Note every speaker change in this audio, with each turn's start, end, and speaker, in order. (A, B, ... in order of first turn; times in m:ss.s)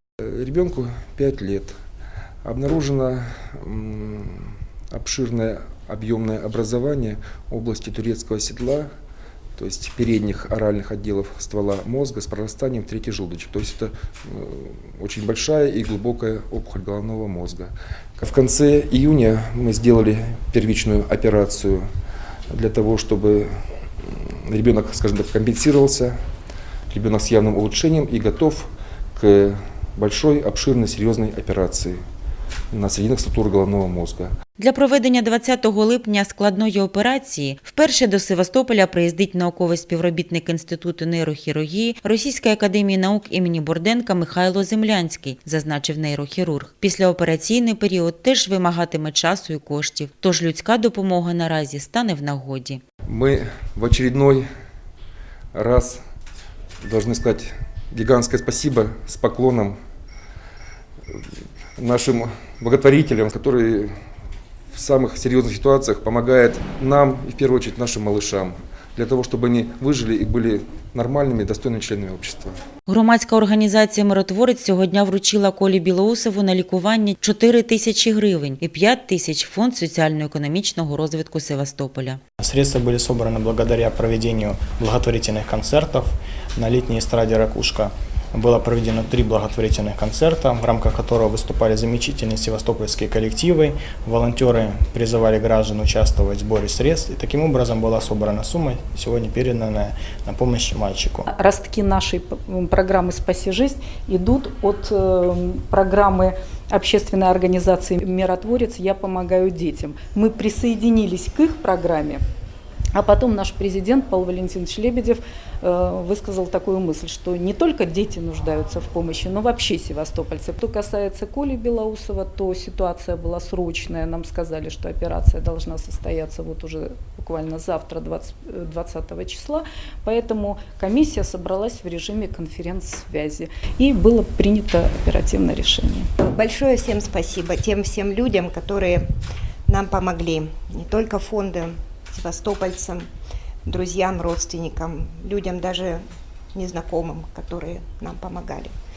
0:00.3-0:01.7 A
0:02.4-0:08.9 A
0:09.6-0:21.8 A
0:22.5-0:23.5 A
0:24.0-0:26.2 A
0:26.9-0:32.0 A
0:32.7-0:34.3 A
0:34.6-0:52.8 B
0:53.1-0:54.4 A
0:55.5-0:56.0 A
0:56.8-0:59.8 A
1:01.8-1:03.9 A
1:04.7-1:12.6 A
1:12.9-1:22.2 B
1:22.4-1:41.3 C
1:41.3-1:52.2 D
1:52.9-2:16.1 D
2:16.2-2:19.1 E
2:19.7-2:23.1 E
2:23.6-2:26.0 E
2:26.5-2:28.7 E